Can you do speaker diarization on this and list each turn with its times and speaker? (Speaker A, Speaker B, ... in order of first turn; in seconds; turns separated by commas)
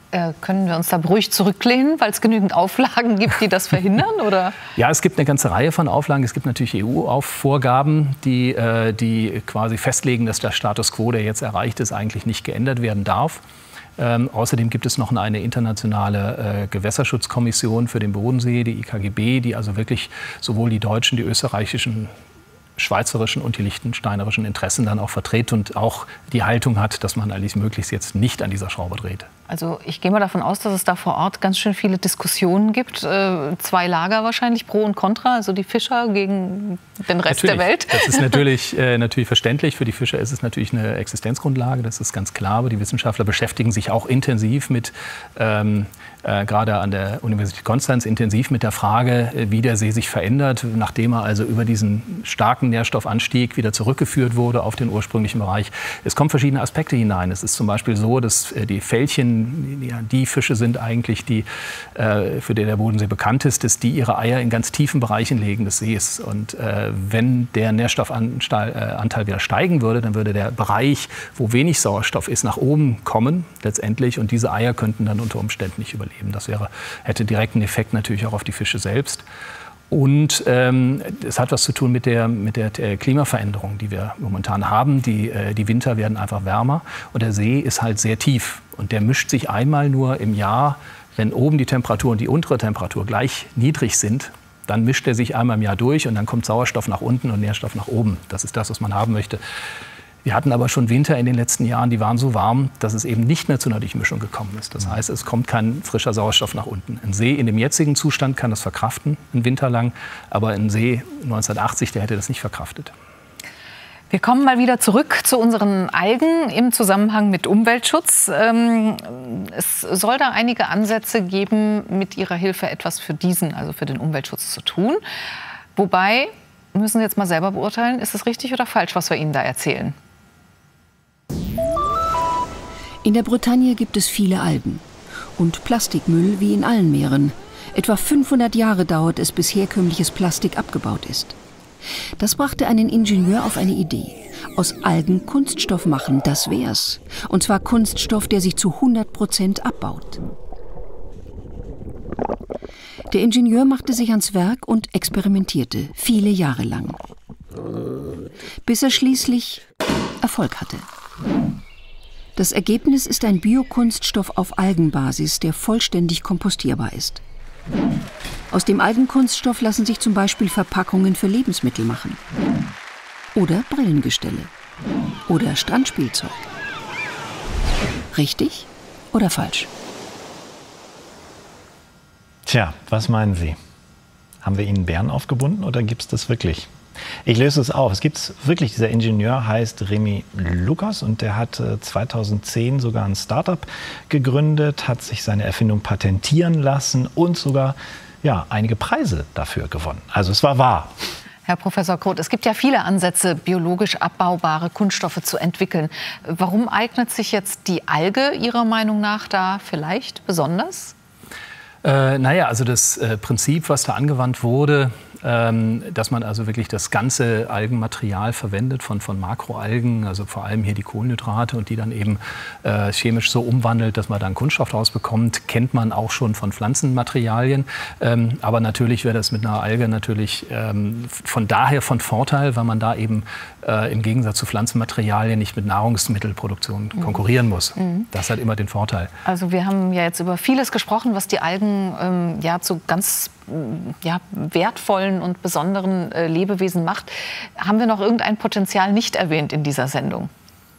Speaker A: 0.1-4.5, Speaker B: 4.8-13.4, Speaker B: 14.0-22.1, Speaker B: 22.8-29.3, Speaker A: 29.5-38.3, Speaker B: 37.3-79.2, Speaker B: 79.9-99.4, Speaker B: 100.2-112.9, Speaker A: 114.1-125.0, Speaker A: 125.8-129.9, Speaker C: 133.0-134.8, Speaker C: 135.4-141.4, Speaker C: 142.2-150.2, Speaker C: 153.1-157.0, Speaker C: 158.6-159.6, Speaker C: 160.2-160.9, Speaker C: 162.4-167.2, Speaker C: 168.5-172.2, Speaker C: 173.3-174.5, Speaker C: 175.3-176.4, Speaker C: 178.1-179.7, Speaker D: 182.4-183.6, Speaker D: 184.4-186.7, Speaker D: 187.2-200.9, Speaker A: 201.5-210.9, Speaker B: 211.8-239.1, Speaker A: 237.8-238.1, Speaker A: 239.3-250.3